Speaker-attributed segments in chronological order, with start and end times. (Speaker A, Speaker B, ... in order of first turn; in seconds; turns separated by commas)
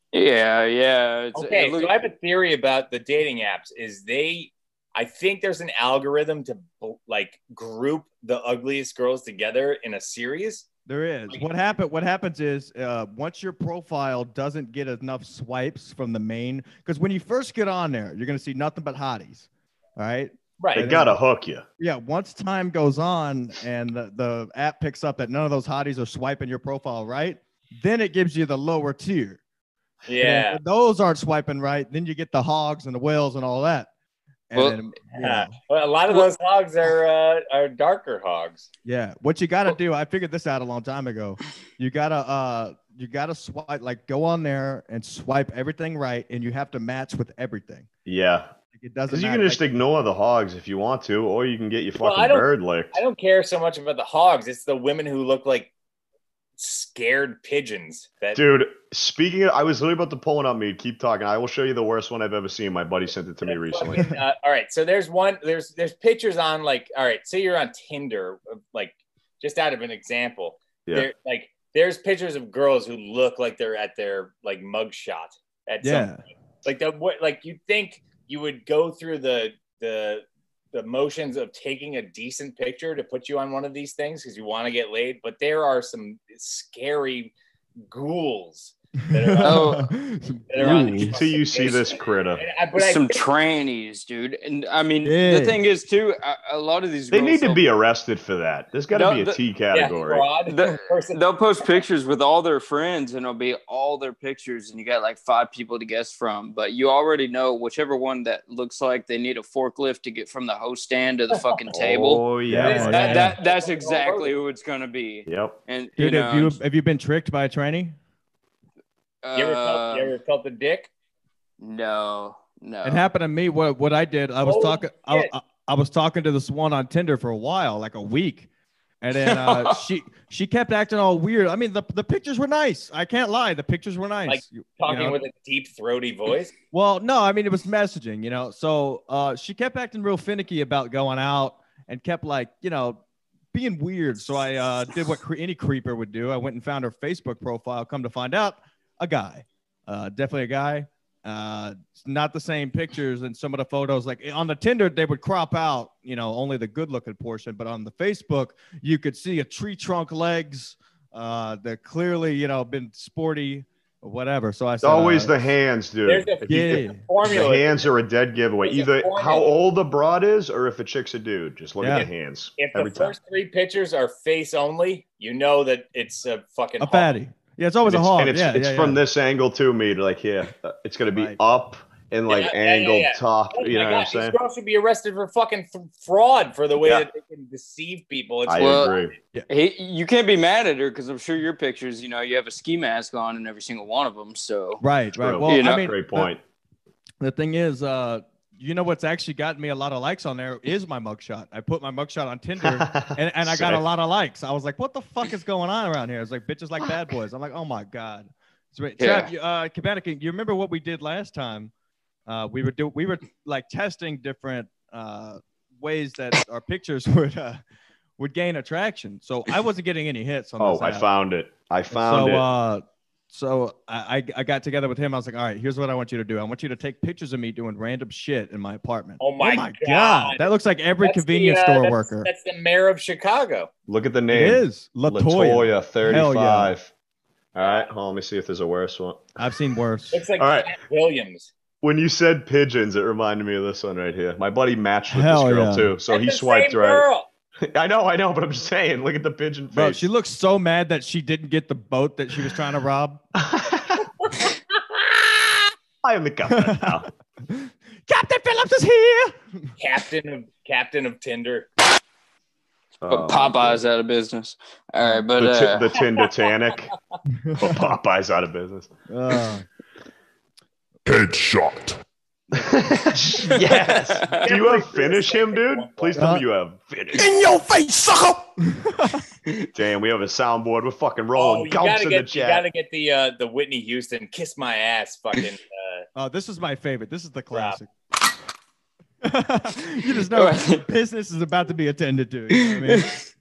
Speaker A: 0.1-2.1, Speaker B: 1.3-10.7, Speaker C: 10.8-21.1, Speaker B: 20.6-20.9, Speaker D: 20.7-21.6, Speaker C: 21.8-29.4, Speaker B: 30.1-30.6, Speaker C: 30.2-33.9, Speaker C: 34.5-35.5, Speaker B: 35.2-38.7, Speaker C: 38.8-47.9, Speaker D: 48.0-48.5, Speaker C: 48.7-49.6, Speaker D: 49.1-53.0, Speaker B: 52.0-55.7, Speaker B: 56.6-58.4, Speaker D: 58.3-64.1, Speaker B: 63.4-87.3, Speaker C: 75.8-76.2, Speaker B: 87.9-89.9, Speaker C: 89.1-91.2, Speaker A: 89.4-89.8, Speaker B: 90.5-93.2, Speaker A: 90.6-91.0, Speaker D: 91.1-92.4, Speaker A: 92.7-97.6, Speaker C: 95.0-95.6, Speaker D: 97.1-100.3, Speaker A: 98.9-99.4, Speaker B: 99.7-101.2, Speaker A: 100.5-116.6, Speaker D: 111.7-113.3, Speaker C: 112.5-113.3, Speaker B: 112.6-114.3, Speaker D: 115.2-115.6, Speaker C: 116.0-117.9, Speaker A: 119.2-120.1, Speaker B: 119.3-120.9, Speaker A: 121.6-123.0, Speaker C: 122.8-128.5, Speaker B: 124.4-125.3, Speaker C: 129.0-135.2, Speaker A: 129.2-129.8, Speaker B: 134.2-136.5, Speaker C: 136.7-143.0, Speaker C: 143.5-165.3, Speaker D: 164.8-173.2, Speaker B: 166.0-167.9, Speaker C: 166.5-167.0, Speaker B: 168.6-169.5, Speaker C: 171.8-172.1, Speaker B: 172.6-177.1, Speaker C: 176.8-179.0, Speaker D: 177.8-184.4, Speaker B: 182.3-189.1, Speaker D: 186.8-187.1, Speaker D: 188.4-189.1, Speaker A: 188.6-188.9, Speaker A: 189.5-194.8, Speaker C: 194.8-196.3, Speaker D: 195.2-196.4, Speaker A: 195.4-195.9, Speaker C: 197.2-211.7, Speaker D: 202.6-203.8, Speaker A: 209.0-209.3, Speaker C: 212.3-217.6, Speaker C: 218.2-221.1, Speaker D: 220.6-222.5, Speaker C: 221.9-232.3, Speaker B: 229.2-230.5, Speaker B: 231.0-233.7, Speaker D: 233.9-236.9, Speaker C: 234.3-236.7, Speaker D: 237.5-239.3, Speaker B: 237.6-237.9, Speaker C: 239.4-240.2, Speaker B: 240.1-241.5, Speaker D: 240.4-240.7, Speaker D: 241.8-247.0, Speaker C: 245.1-245.9, Speaker B: 246.1-247.3, Speaker D: 247.6-250.1, Speaker C: 249.7-253.2, Speaker D: 253.3-254.1, Speaker B: 254.3-255.0, Speaker D: 256.0-257.1, Speaker C: 256.5-259.7, Speaker B: 259.8-261.7, Speaker D: 263.0-263.8, Speaker A: 263.1-265.9, Speaker D: 265.4-266.9, Speaker C: 267.4-267.8, Speaker D: 267.6-268.9, Speaker C: 269.1-269.6, Speaker E: 271.1-272.0, Speaker D: 272.5-277.3, Speaker A: 273.6-274.4, Speaker B: 274.4-276.3, Speaker C: 276.1-276.4, Speaker E: 277.1-278.4, Speaker C: 278.6-279.2, Speaker D: 279.7-282.6, Speaker B: 281.3-286.1, Speaker C: 286.1-287.9, Speaker B: 287.5-287.8, Speaker C: 289.2-293.1, Speaker A: 290.3-290.8, Speaker A: 292.5-293.2